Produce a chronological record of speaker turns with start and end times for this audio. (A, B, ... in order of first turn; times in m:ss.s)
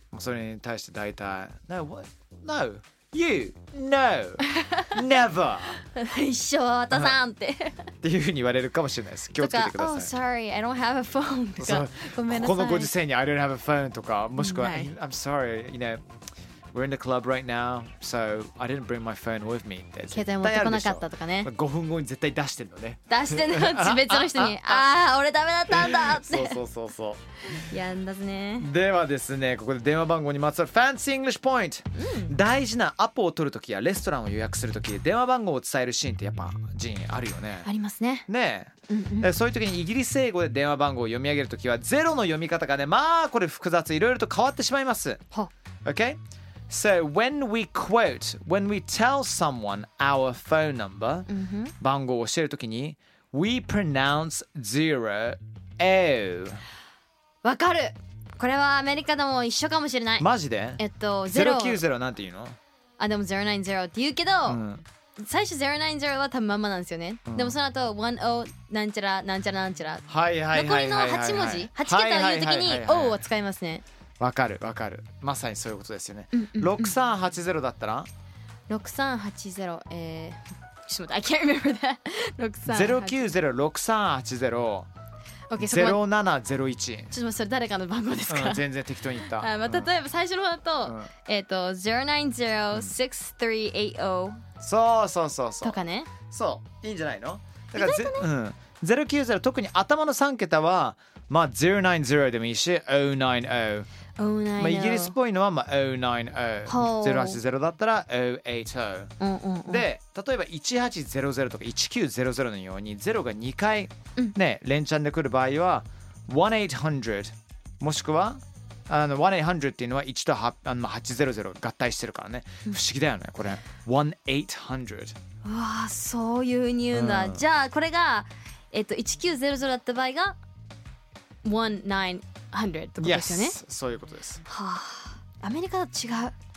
0:00.1-0:05.8 A
0:05.9-0:07.9 B
0:06.9-0:07.2 A
0:08.0-0:10.1 A
0:09.4-0:12.9 B
0:11.6-0:16.0 A
0:14.4-0:14.9 B
0:16.7-0:24.9 A
0:20.1-0:21.5 B
0:23.1-0:26.6 B
0:25.7-0:27.2 A
0:27.5-0:28.7 B
0:28.6-0:37.7 A
0:32.0-0:32.3 B
0:37.6-0:38.3 B
0:38.3-0:45.2 A
0:38.9-0:39.3 B
0:45.8-0:51.3 A
0:51.3-0:51.7 B
0:51.8-0:56.6 A
0:57.4-1:00.3 B
1:00.2-1:02.6 A
1:00.8-1:01.8 B
1:03.0-1:04.6 B
1:04.4-1:04.8 A
1:05.2-1:13.8 B
1:07.3-1:07.6 A
1:10.1-1:13.3 A
1:14.2-1:18.1 A
1:16.3-1:16.9 B
1:18.7-1:23.3 B
1:22.6-1:24.9 A
1:25.5-1:26.0 B
1:25.6-1:27.1 A
1:27.1-1:34.4 B
1:28.3-1:29.9 A
1:30.8-1:31.1 A
1:34.6-1:43.9 A
1:35.6-1:36.1 B
1:37.7-1:38.3 B
1:44.2-1:45.1 B
1:44.6-1:49.1 A
1:46.6-1:47.4 B
1:49.2-1:49.9 B
1:49.6-2:05.2 A
2:05.4-2:10.4 B
2:06.9-2:07.4 A
2:11.4-2:13.6 B
2:13.0-2:14.4 A
2:14.5-2:16.3 B